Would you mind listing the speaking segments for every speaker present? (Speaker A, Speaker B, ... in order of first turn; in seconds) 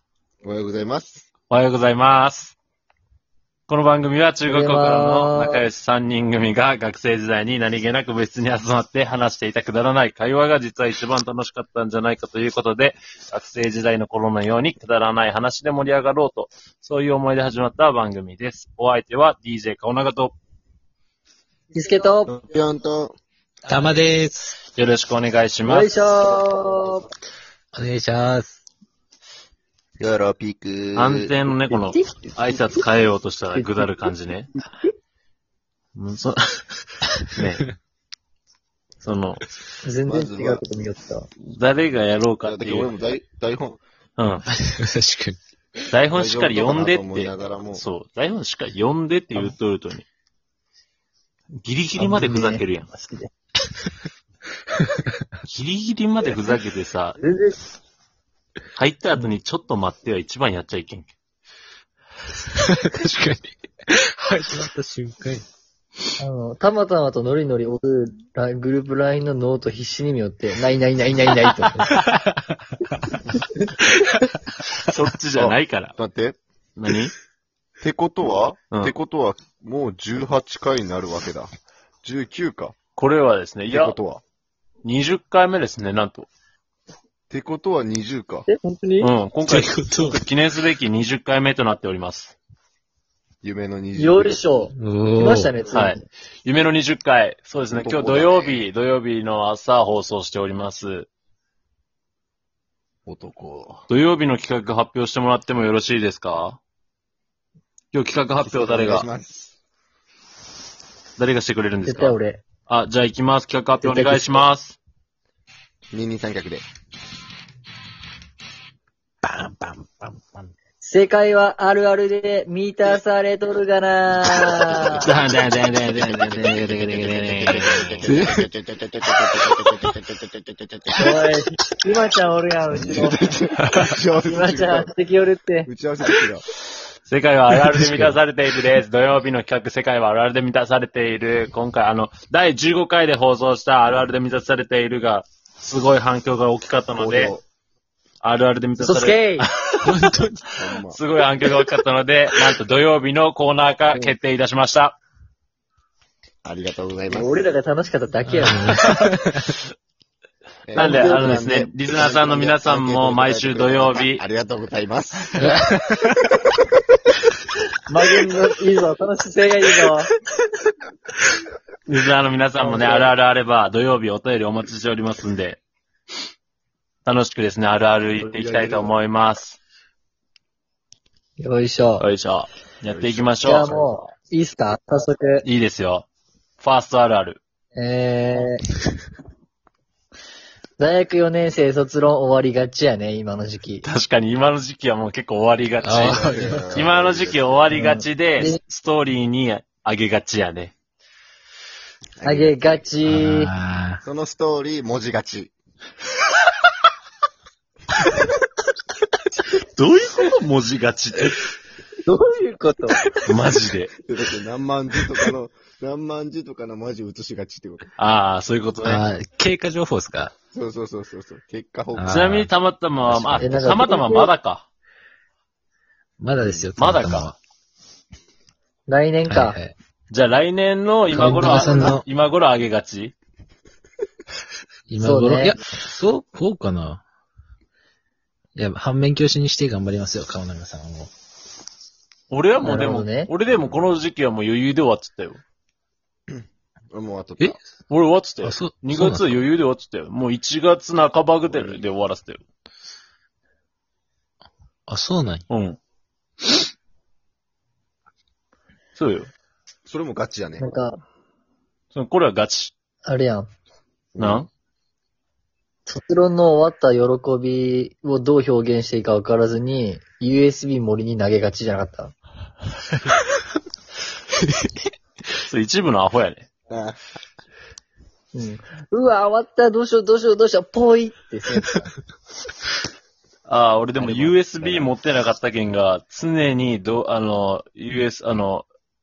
Speaker A: 0.4-1.3, 22.3-23.1, 30.0-31.4, 40.0-40.6, 42.4-43.8, 46.1-47.8, 75.4-76.4, 77.8-81.5, 82.0-82.7, 83.7-84.2, 87.3-88.5, 93.4-94.7, 97.7-98.6, 103.0-103.8, 108.4-109.5, 115.9-116.6, 124.6-125.5, 126.3-131.1, 132.8-134.9, 135.7-136.4, 146.9-147.4, 150.6-151.0, 156.4-157.3, 160.7-165.5, 178.2-178.9, 182.8-183.9, 195.9-197.6, 202.2-202.6, 204.0-205.5, 214.1-217.9, 220.5-222.3, 243.6-243.9, 246.3-247.6, 251.5-251.8, 259.9-260.6, 264.1-264.5, 276.7-277.0, 283.9-284.9
Speaker B: 1.5-2.5, 3.7-20.4, 24.7-25.9, 30.9-34.5, 35.9-36.6, 37.3-37.7, 39.0-39.5, 41.5-42.9, 44.2-44.4, 45.9-50.0, 51.6-52.9, 55.5-57.2, 58.8-61.1, 74.8-75.9, 76.8-77.1, 83.0-84.0, 84.8-86.3, 89.0-92.3, 95.7-101.1, 103.9-106.6, 107.9-109.1, 111.2-112.2, 112.7-114.8, 125.0-128.1, 137.1-147.3, 148.2-149.8, 150.9-155.0, 160.7-164.2, 171.9-175.6, 177.0-179.6, 182.0-183.8, 185.4-186.1, 186.6-187.4, 193.8-200.7, 209.8-211.4, 213.2-213.9, 218.0-219.0, 222.1-224.7, 226.8-227.3, 230.1-233.1, 242.3-245.4, 247.9-252.4, 255.5-255.8, 258.9-259.3, 261.9-262.7, 264.2-264.5, 275.4-276.5, 283.4-288.6
Speaker C: 4.5-5.6, 21.7-22.3, 25.6-27.1, 31.8-32.7, 33.5-33.9, 39.8-41.3, 52.0-53.3, 57.2-57.5, 66.2-71.9, 88.5-89.1, 94.0-96.0, 111.8-112.4, 113.8-114.5, 120.8-125.1, 131.0-133.3, 134.2-135.7, 148.8-149.5, 157.1-158.8, 167.9-170.1, 172.6-173.1, 181.4-182.1, 183.4-185.4, 187.7-188.6, 190.8-193.8, 197.7-198.6, 202.2-203.5, 212.0-213.0, 223.4-224.3, 228.9-229.6, 235.0-235.6, 242.6-243.3, 260.6-261.0, 263.0-263.5, 265.9-272.1, 278.3-281.9
Speaker D: 23.7-24.5, 27.7-28.6, 44.6-45.4, 62.5-65.4, 71.9-72.5, 89.5-90.2, 94.8-95.5, 119.2-120.5, 128.0-128.4, 137.6-138.1, 149.8-150.5, 158.3-159.6, 165.5-166.1, 195.8-196.6, 203.0-204.0, 218.8-220.3, 221.9-222.5, 223.0-223.8, 226.2-227.4, 229.2-229.7, 231.1-232.0, 234.9-237.0, 238.6-241.1, 248.4-249.4, 254.9-255.4, 274.4-274.9